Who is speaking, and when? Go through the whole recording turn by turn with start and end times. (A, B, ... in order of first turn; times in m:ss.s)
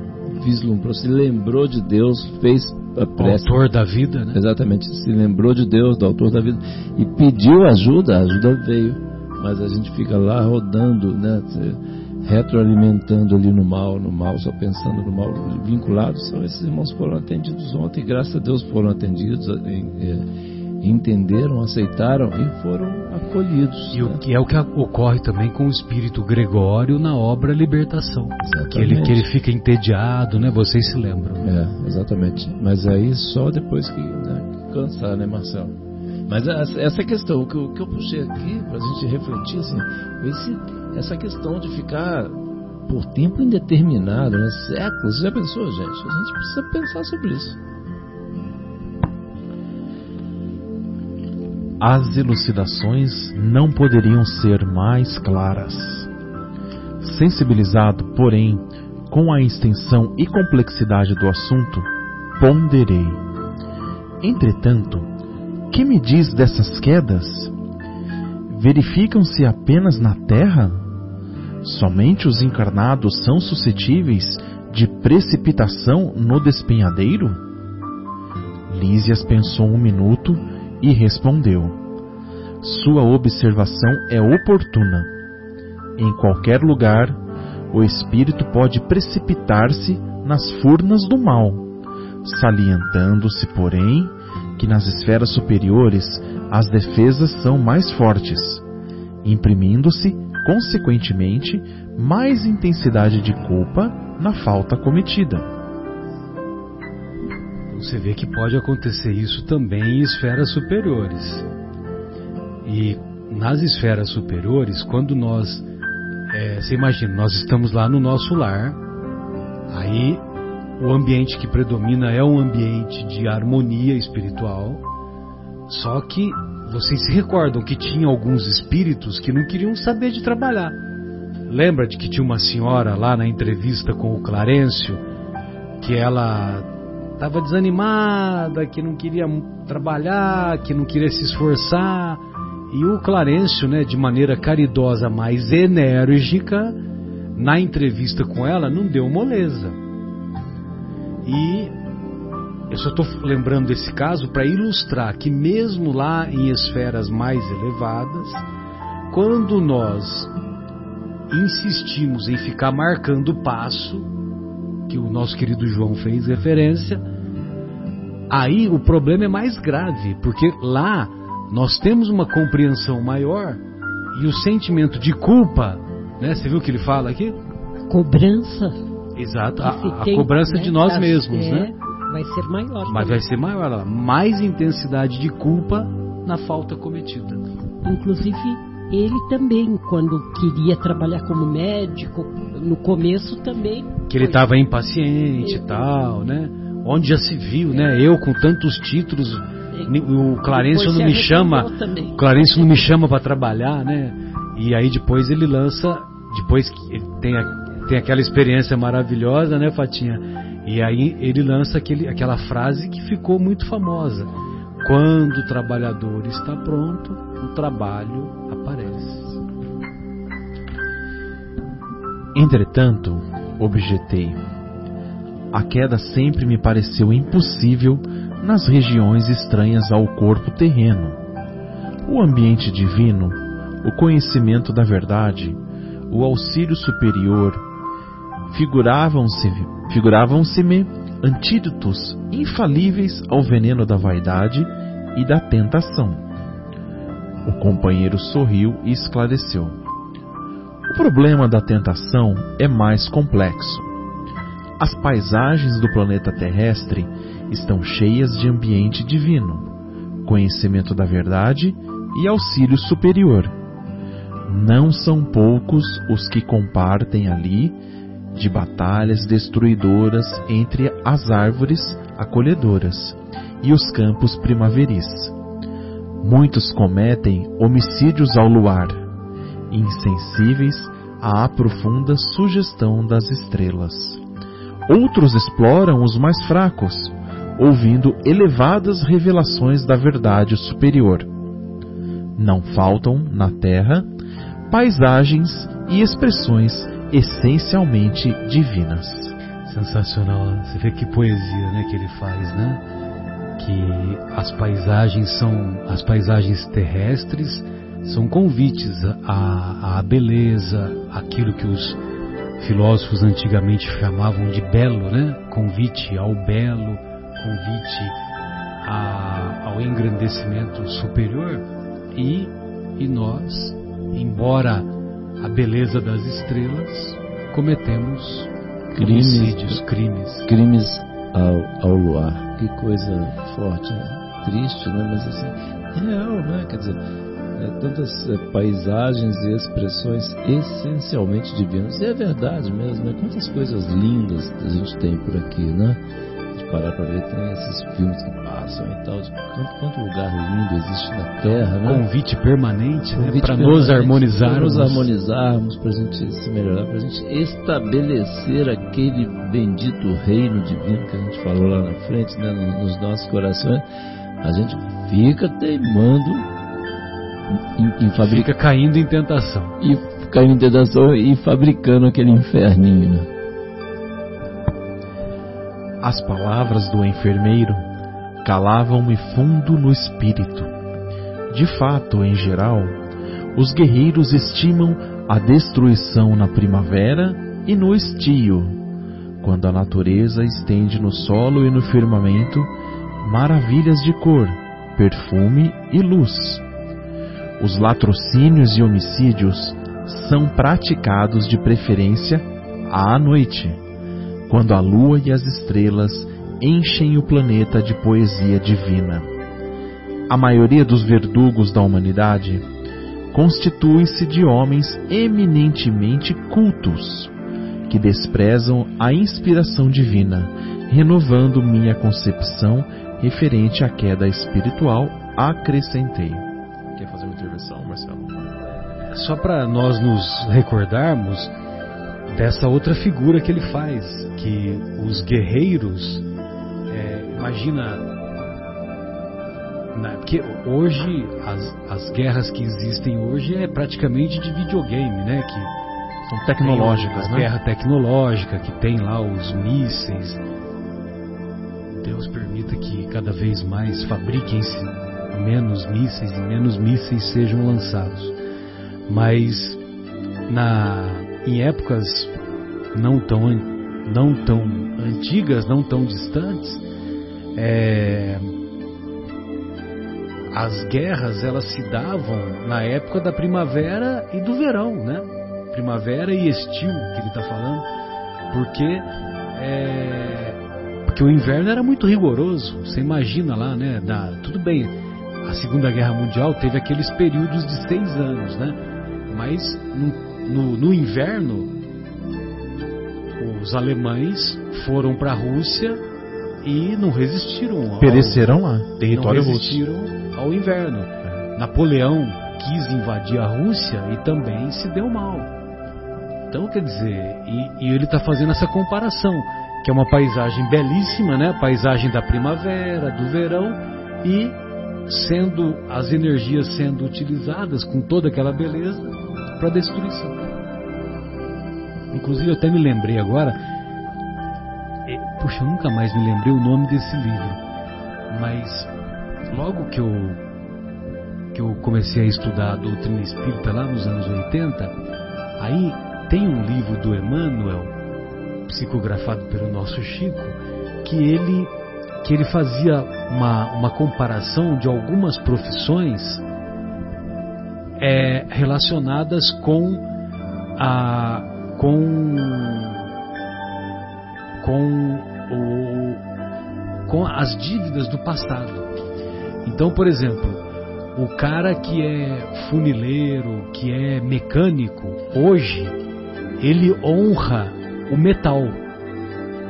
0:00.3-0:03.6 A
0:03.2-0:04.4 B
0:04.3-0:20.2 A
0:20.8-0:24.2 A
0:23.9-0:31.5 B
0:28.4-0:29.2 A
0:31.4-0:35.8 A
0:36.3-0:47.6 A
0:51.8-0:56.1 C
0:57.0-1:03.2 C
1:04.2-1:05.1 C
1:05.7-1:07.5 C
1:08.5-1:10.9 C
1:11.6-1:17.4 C
1:18.7-1:21.8 C
1:22.6-1:25.1 C
1:26.0-1:27.2 C
1:27.7-1:31.7 C
1:32.2-1:38.6 C
1:39.2-1:45.5 C
1:47.7-1:51.5 B
1:52.6-1:55.6 B
1:56.3-1:58.8 B
1:59.7-2:00.2 B
2:00.8-2:04.8 B
2:05.7-2:10.8 B
2:11.5-2:15.0 B
2:15.8-2:26.8 B
2:27.3-2:29.8 B
2:31.2-2:31.7 B
2:32.7-2:38.4 B
2:39.1-2:40.3 B
2:41.3-2:44.1 B
2:44.9-2:47.0 B
2:48.3-2:53.6 B
2:54.1-2:57.4 B
2:57.9-2:58.8 D
2:59.2-3:01.7 B
2:59.6-3:03.2 D
3:02.9-3:07.4 B
3:07.8-3:14.5 D
3:14.1-3:34.3 B
3:15.4-3:15.7 D
3:19.7-3:22.9 D
3:34.8-3:39.4 B
3:42.3-3:44.4 C
3:45.5-3:51.2 C
3:52.0-3:55.6 C
3:56.1-3:57.6 C
3:58.5-4:06.2 C
4:07.4-4:09.8 C
4:10.9-4:13.9 C
4:14.8-4:19.7 C
4:20.2-4:23.5 C
4:24.5-4:27.8 C
4:28.3-4:35.3 C
4:36.2-4:39.0 C
4:39.7-4:44.2 C
4:44.9-4:51.3 C
4:52.4-4:54.1 C
4:54.7-4:59.3 C
4:59.6-5:02.8 B
5:03.6-5:12.0 B
5:12.6-5:18.2 B
5:18.8-5:30.5 B
5:28.9-5:29.8 A
5:30.4-5:37.0 A
5:37.5-5:52.0 A
5:51.4-5:55.1 B
5:53.1-6:03.8 A
6:04.4-6:06.5 A
6:07.5-6:08.5 A
6:08.1-6:09.8 B
6:09.8-6:13.3 A
6:16.0-6:17.8 C
6:18.4-6:20.7 C
6:21.5-6:23.0 C
6:23.5-6:28.8 C
6:29.4-6:32.7 C
6:33.2-6:36.6 C
6:37.6-6:43.8 C
6:44.5-6:49.3 C
6:50.3-6:52.6 C
6:53.3-6:57.3 C
6:57.9-7:08.5 C
7:09.1-7:11.5 B
7:12.3-7:16.2 B
7:16.9-7:18.0 B
7:19.9-7:25.7 B
7:26.2-7:27.5 C
7:26.6-7:30.4 B
7:32.0-7:38.4 B
7:39.1-7:39.8 B
7:40.5-7:42.3 B
7:42.9-7:46.8 B
7:47.5-7:48.5 B
7:50.5-7:57.8 B
7:58.5-8:11.7 B
8:13.4-8:16.0 B
8:16.6-8:18.4 B
8:18.0-8:19.8 C
8:19.0-8:25.5 B
8:26.5-8:40.5 B
8:42.1-8:43.6 B
8:45.0-8:47.6 B
8:48.3-8:48.9 B
8:49.5-8:50.4 B
8:51.5-8:55.0 B
8:55.6-8:57.9 B
8:58.7-9:01.7 B
9:02.2-9:06.4 B
9:08.0-9:10.0 B
9:10.8-9:13.1 B
9:14.6-9:16.2 B
9:17.1-9:18.9 B
9:19.6-9:26.0 B
9:26.6-9:28.8 B